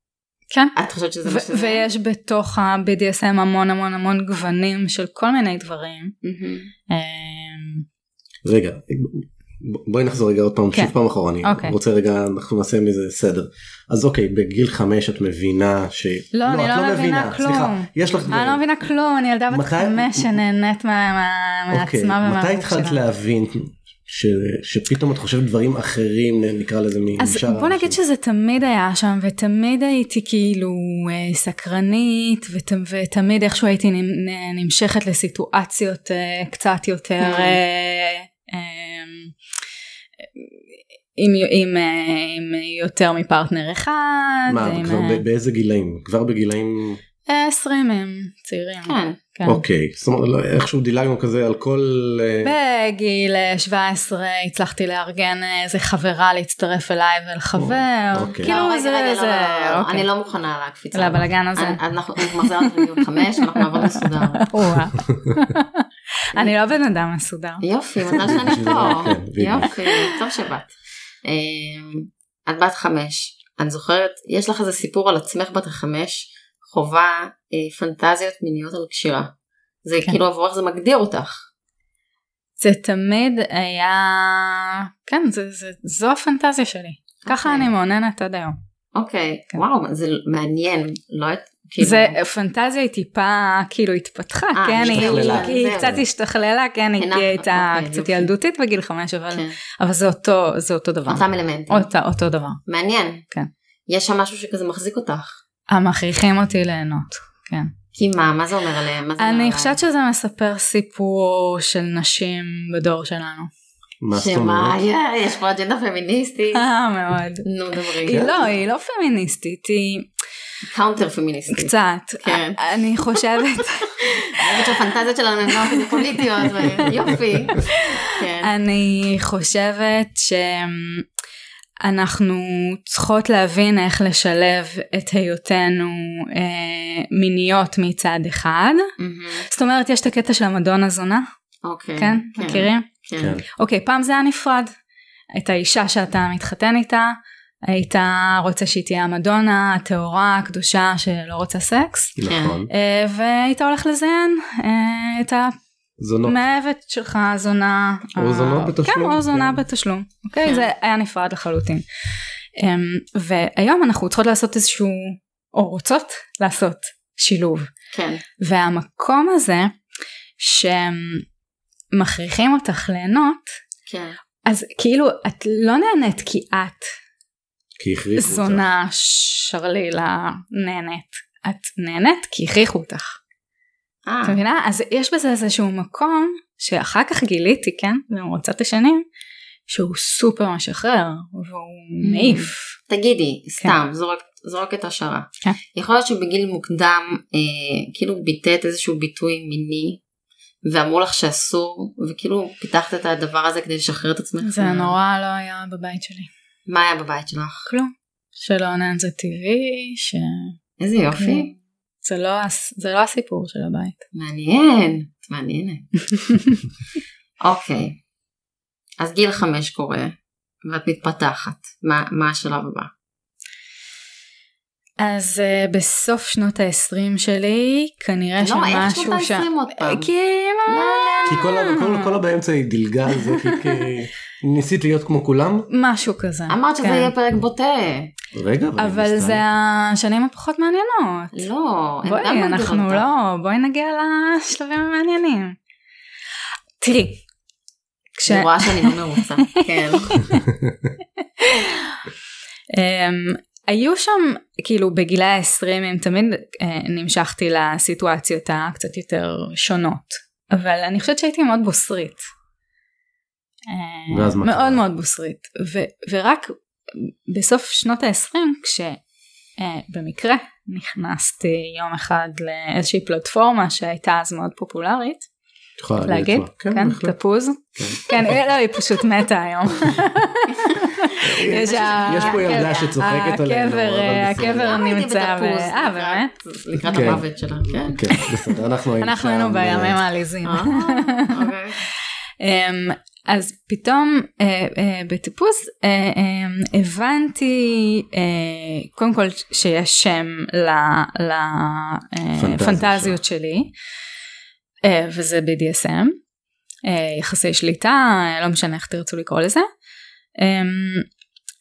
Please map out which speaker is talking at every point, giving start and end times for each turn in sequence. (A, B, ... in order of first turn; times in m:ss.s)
0:00.5-0:06.2 A
0:00.7-0:01.8 B
0:06.2-0:06.7 B
0:06.9-0:07.8 A
0:08.4-0:18.6 C
0:10.7-0:11.8 A
0:16.3-0:23.0 A
0:19.5-0:20.4 C
0:21.7-0:28.0 C
0:27.2-0:39.3 A
0:37.2-0:37.6 B
0:41.2-0:45.2 A
0:44.5-0:47.0 C
0:47.3-0:49.6 A
0:48.8-0:49.2 B
0:49.4-0:52.5 C
0:52.4-1:00.0 A
0:57.6-0:58.5 C
0:58.4-1:04.5 B
1:00.9-1:02.9 A
1:03.5-1:07.6 A
1:07.6-1:10.7 B
1:08.2-1:09.7 C
1:09.8-1:10.1 A
1:11.2-1:19.3 B
1:19.8-1:21.4 B
1:22.6-1:28.6 A
1:27.2-1:27.7 B
1:28.9-1:32.2 B
1:31.8-1:42.6 A
1:34.6-1:36.0 B
1:34.8-1:36.0 C
1:37.0-1:38.3 B
1:39.3-1:39.6 B
1:41.1-1:41.9 B
1:42.7-1:43.2 B
1:43.9-1:45.4 B
1:45.7-1:47.7 A
1:47.9-1:49.8 B
1:49.2-1:53.5 A
1:54.0-1:54.8 C
1:54.1-1:56.6 B
1:56.5-1:57.5 A
1:57.4-1:58.4 B
1:58.0-2:00.1 A
1:58.1-1:58.3 C
2:00.7-2:03.2 B
2:01.5-2:04.8 A
2:04.4-2:08.5 B
2:05.5-2:06.9 A
2:07.5-2:11.0 A
2:11.8-2:18.9 A
2:19.0-2:19.5 B
2:19.5-2:21.2 A
2:21.6-2:23.4 B
2:22.0-2:22.9 A
2:23.2-2:23.4 C
2:23.5-2:24.7 A
2:25.3-2:32.2 A
2:32.2-2:32.7 C
2:32.2-2:32.6 B
2:32.7-2:35.5 A
2:36.0-2:36.4 C
2:36.2-2:41.8 A
2:38.2-2:39.6 C
2:42.6-2:47.7 A
2:47.9-2:48.2 B
2:48.4-2:49.8 A
2:50.4-2:51.2 A
2:51.9-2:53.6 A
2:53.8-2:54.2 B
2:54.4-2:56.9 A
2:57.8-2:58.7 C
2:58.2-3:03.2 A
3:04.0-3:04.4 B
3:04.2-3:09.0 A
3:09.7-3:12.7 A
3:12.0-3:20.0 B
3:20.6-3:25.0 B
3:24.4-3:26.3 A
3:26.6-3:27.7 B
3:27.7-3:30.5 A
3:30.8-3:31.5 B
3:31.2-3:34.0 A
3:34.1-3:35.8 B
3:36.1-3:36.6 A
3:37.4-3:38.0 B
3:39.0-3:42.9 B
3:45.0-3:52.2 A
3:48.4-3:50.1 B
3:50.6-3:51.4 B
3:51.3-3:55.7 C
3:53.1-3:53.9 A
3:55.7-3:57.1 A
3:56.5-3:58.1 B
3:58.3-3:59.4 C
3:58.8-4:01.4 A
4:01.3-4:03.1 B
4:02.0-4:05.6 A
4:06.8-4:07.2 A
4:08.2-4:10.4 A
4:08.3-4:10.2 B
4:11.4-4:12.0 A
4:12.7-4:22.3 A
4:23.7-4:29.0 A
4:24.1-4:24.8 C
4:29.6-4:35.3 A
4:35.8-4:37.2 C
4:36.0-4:46.3 A
4:37.8-4:38.4 C
4:40.6-4:43.0 B
4:41.2-4:44.8 C
4:44.5-4:48.1 B
4:46.8-4:50.0 C
4:48.1-4:51.5 A
4:50.4-4:51.8 B
4:52.4-5:03.7 A
5:02.4-5:03.2 C
5:04.8-5:06.2 A
5:06.8-5:09.7 A
5:10.4-5:11.1 A